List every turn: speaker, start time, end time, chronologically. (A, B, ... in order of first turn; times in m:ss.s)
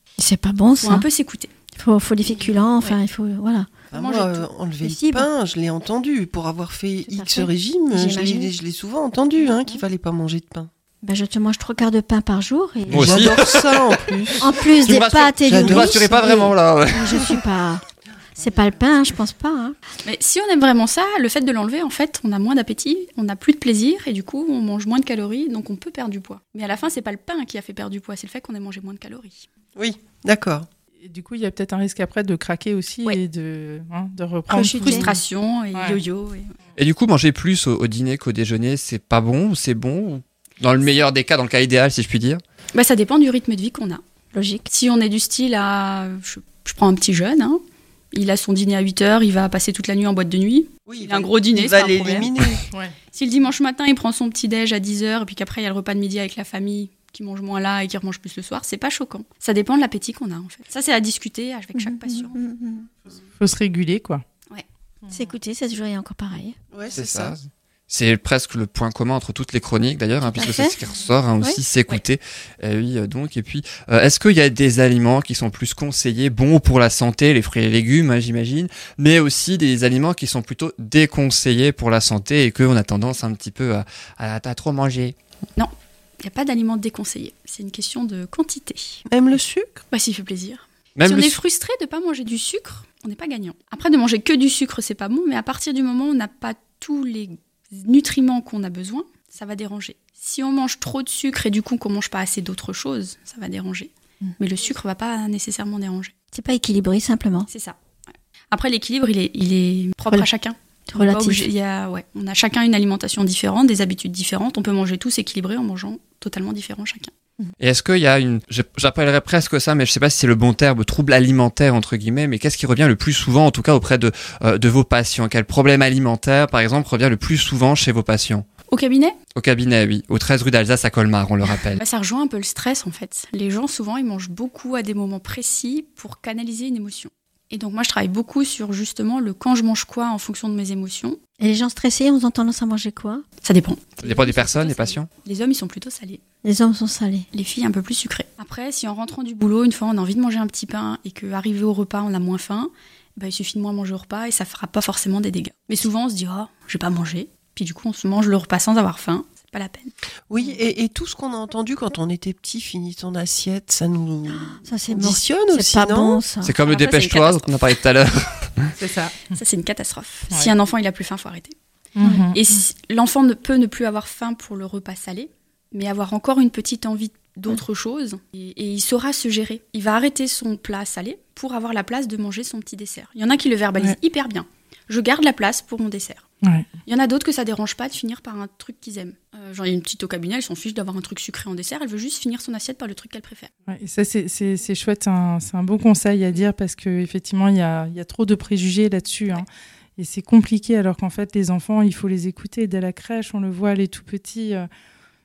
0:00.2-0:01.0 A
0:00.7-0:01.5 B
0:01.8-0:03.7 A
0:03.9-0:10.7 C
0:03.9-0:04.5 B
0:04.8-0:05.3 A
0:07.1-0:08.5 A
0:09.4-0:09.8 A
0:11.0-0:13.5 A
0:12.9-0:13.9 D
0:12.9-0:14.5 C
0:14.4-0:17.8 A
0:14.8-0:17.4 D
0:15.4-0:16.0 C
0:18.4-0:19.8 A
0:20.0-0:29.5 B
0:29.8-0:30.7 C
0:31.0-0:35.1 E
0:34.5-0:35.2 A
0:34.7-0:36.5 B
0:35.7-0:36.0 E
0:36.8-0:42.4 D
0:42.7-0:44.0 B
0:44.3-0:44.7 A
0:44.7-0:47.6 B
0:48.1-0:52.4 B
0:50.8-0:52.6 C
0:52.7-0:52.9 E
0:53.1-1:02.4 B
1:01.7-1:02.9 A
1:03.4-1:04.2 E
1:05.1-1:06.6 A
1:06.7-1:07.4 C
1:06.9-1:25.1 D
1:10.2-1:10.7 A
1:25.6-1:29.0 B
1:29.1-1:29.8 C
1:29.9-1:46.1 B
1:31.0-1:31.4 D
1:46.3-1:47.5 A
1:47.5-1:47.8 B
1:48.5-1:57.1 B
1:50.9-1:51.5 A
1:57.6-2:08.4 D
2:08.7-2:09.2 B
2:09.3-2:11.8 D
2:11.8-2:21.2 B
2:21.4-2:23.2 A
2:23.4-2:26.2 B
2:24.0-2:25.1 D
2:26.4-2:27.3 A
2:27.3-2:39.9 B
2:40.3-2:46.2 C
2:44.3-2:46.5 A
2:46.4-2:48.7 D
2:46.6-2:47.6 B
2:48.8-2:49.4 E
2:49.3-2:51.5 B
2:52.0-2:52.4 E
2:52.3-3:06.2 B
3:06.4-3:06.7 E
3:06.8-3:13.5 B
3:13.7-3:24.7 E